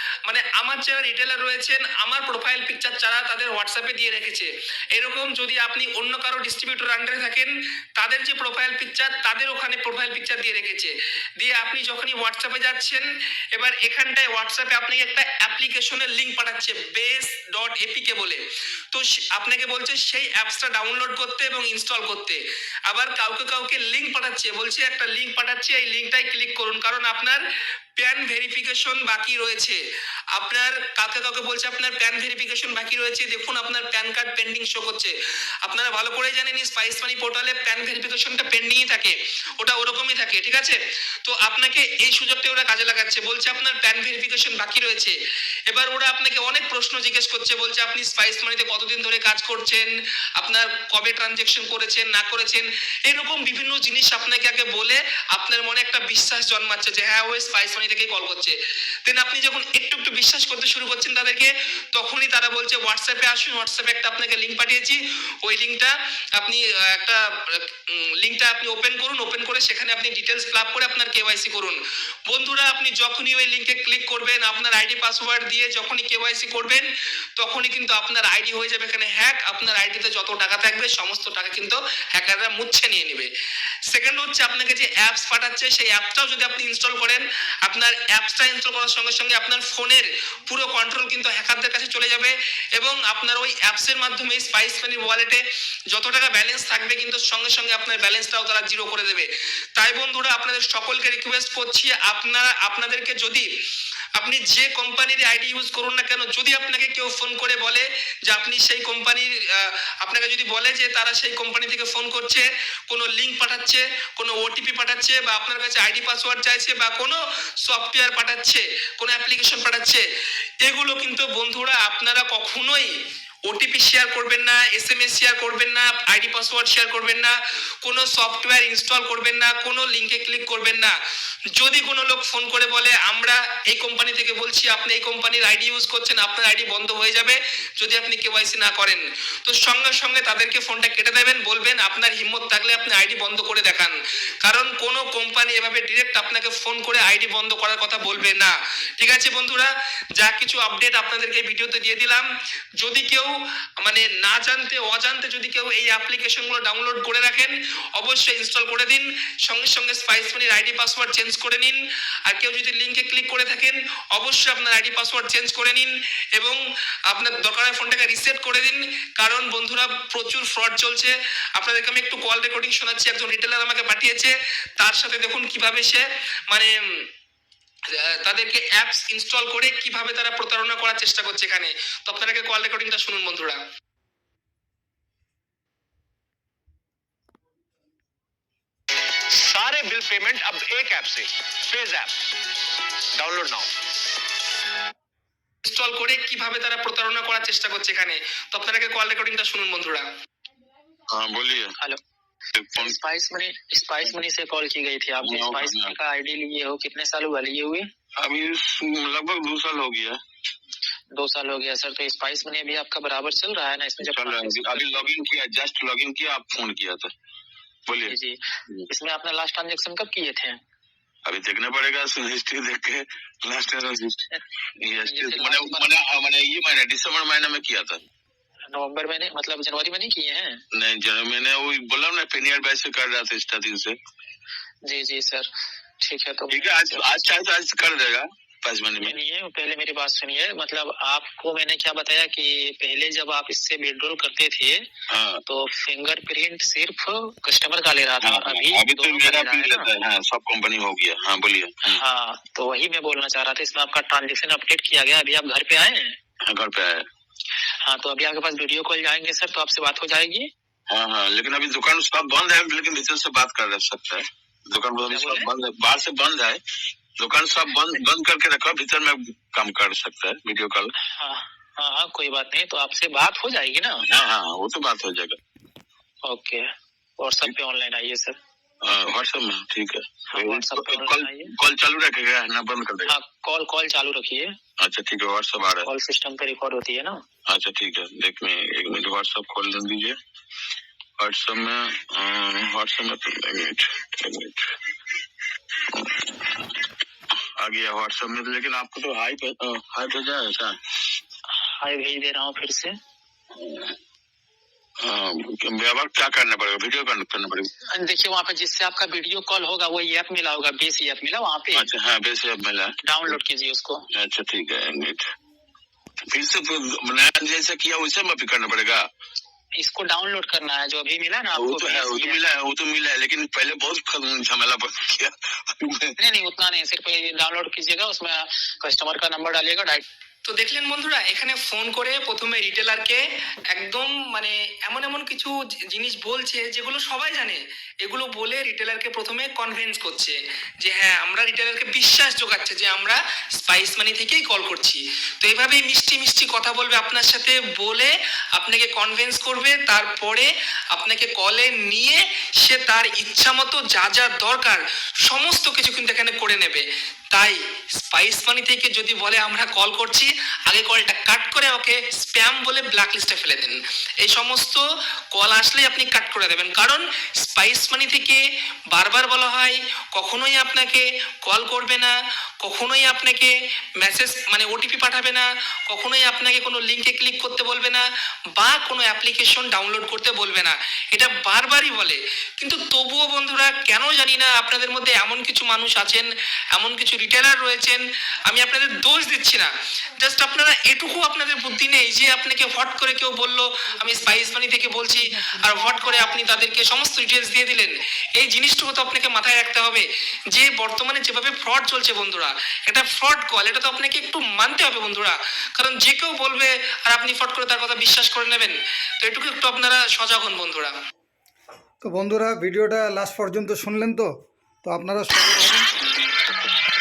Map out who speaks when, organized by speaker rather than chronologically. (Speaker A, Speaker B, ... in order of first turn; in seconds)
Speaker A: 0.3-18.4, 18.9-27.4, 28.0-29.8, 30.3-35.1, 35.6-45.1, 45.7-49.9, 50.4-71.8, 72.3-76.9, 77.4-83.3, 83.9-103.5, 104.2-120.0, 120.6-122.9, 123.5-130.9, 131.6-152.2, 152.8-153.3, 153.8-166.6, 167.1-176.7, 178.2-183.6, 195.6-200.0, 330.4-333.2, 333.7-364.8, 365.3-368.4, 368.9-378.0, 378.6-389.7, 390.2-410.9
Speaker B: 189.3-192.1, 193.2-193.7
Speaker C: 201.1-201.7, 202.5-203.0, 205.2-205.9, 208.2-210.2, 214.0-217.1, 217.9-218.1, 221.2-224.2, 224.8-228.0, 230.7-234.0, 236.5-239.2, 245.1-245.4, 248.2-252.0, 256.4-257.1, 260.9-266.6, 267.2-270.9, 274.1-275.4, 278.8-283.1, 284.8-285.9, 287.5-290.1, 291.2-294.7, 295.9-296.6, 297.6-300.8, 303.6-303.9, 305.0-307.7, 311.8-312.9, 314.1-315.2, 316.3-319.1, 321.6-326.1
Speaker D: 202.8-207.9, 211.1-215.3, 218.0-218.4, 218.9-220.6, 224.3-225.9, 228.7-230.6, 234.8-235.5, 236.0-237.3, 239.0-244.9, 245.5-249.9, 251.9-256.1, 257.8-260.5, 265.1-265.5, 271.1-274.0, 276.2-276.6, 277.2-278.4, 280.3-281.5, 283.1-284.5, 285.8-287.2, 301.8-302.9, 307.9-311.9, 313.0-314.1, 319.8-322.4, 326.2-330.0
Speaker E: 412.0-414.3, 414.8-415.9